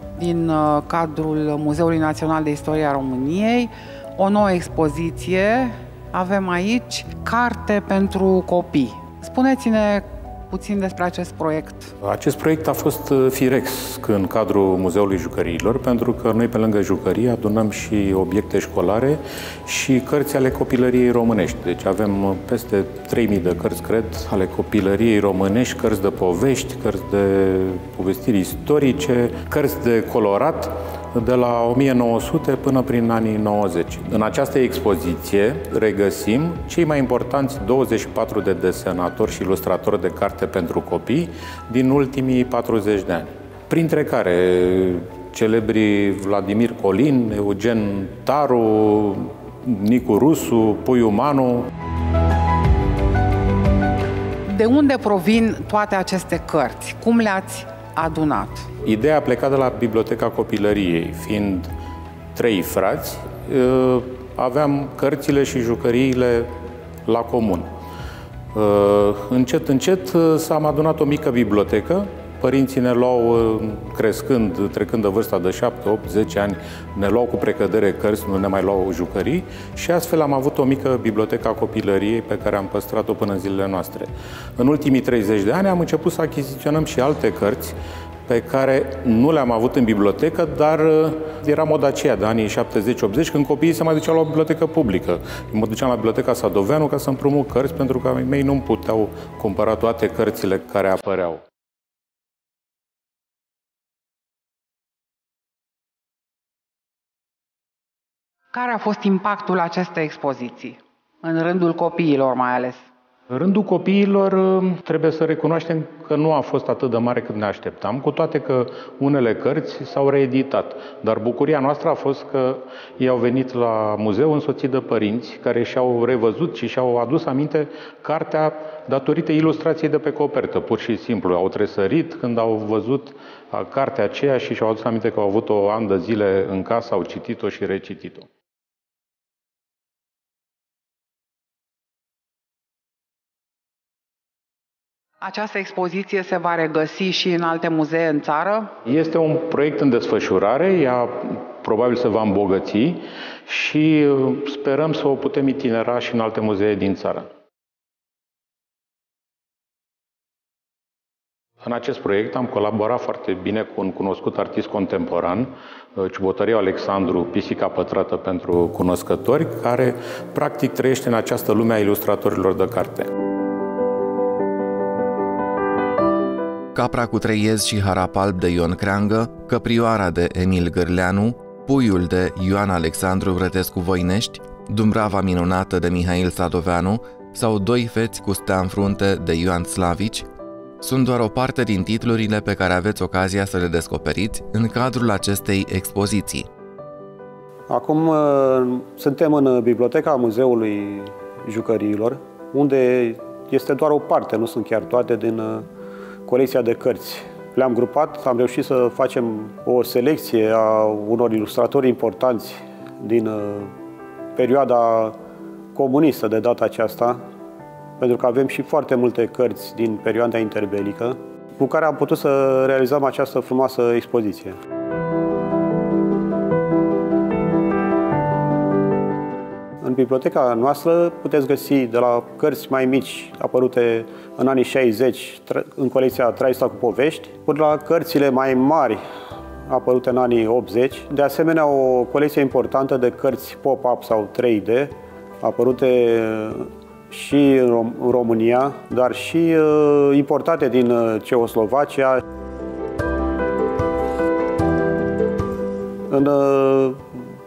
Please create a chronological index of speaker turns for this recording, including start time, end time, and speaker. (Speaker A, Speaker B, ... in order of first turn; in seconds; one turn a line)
Speaker A: 0.1-11.9
Speaker B: 12.0-51.7
Speaker A: 54.5-58.7
Speaker B: 58.9-61.7
Speaker B: 62.4-66.5
Speaker B: 67.1-67.7
Speaker B: 68.5-87.8
Speaker B: 88.3-101.4
Speaker A: 108.5-112.8
Speaker B: 113.3-138.3
Speaker A: 145.2-148.7
Speaker B: 148.9-157.3
Speaker B: 161.6-173.1
Speaker C: 176.8-190.3
Speaker C: 190.8-196.5
Speaker D: 197.7-205.7
Speaker D: 206.3-213.7
Speaker D: 214.3-215.2
Speaker D: 215.7-217.2
Speaker D: 218.0-224.6
Speaker D: 229.8-239.0
Speaker D: 239.7-252.2
Speaker D: 256.1-257.1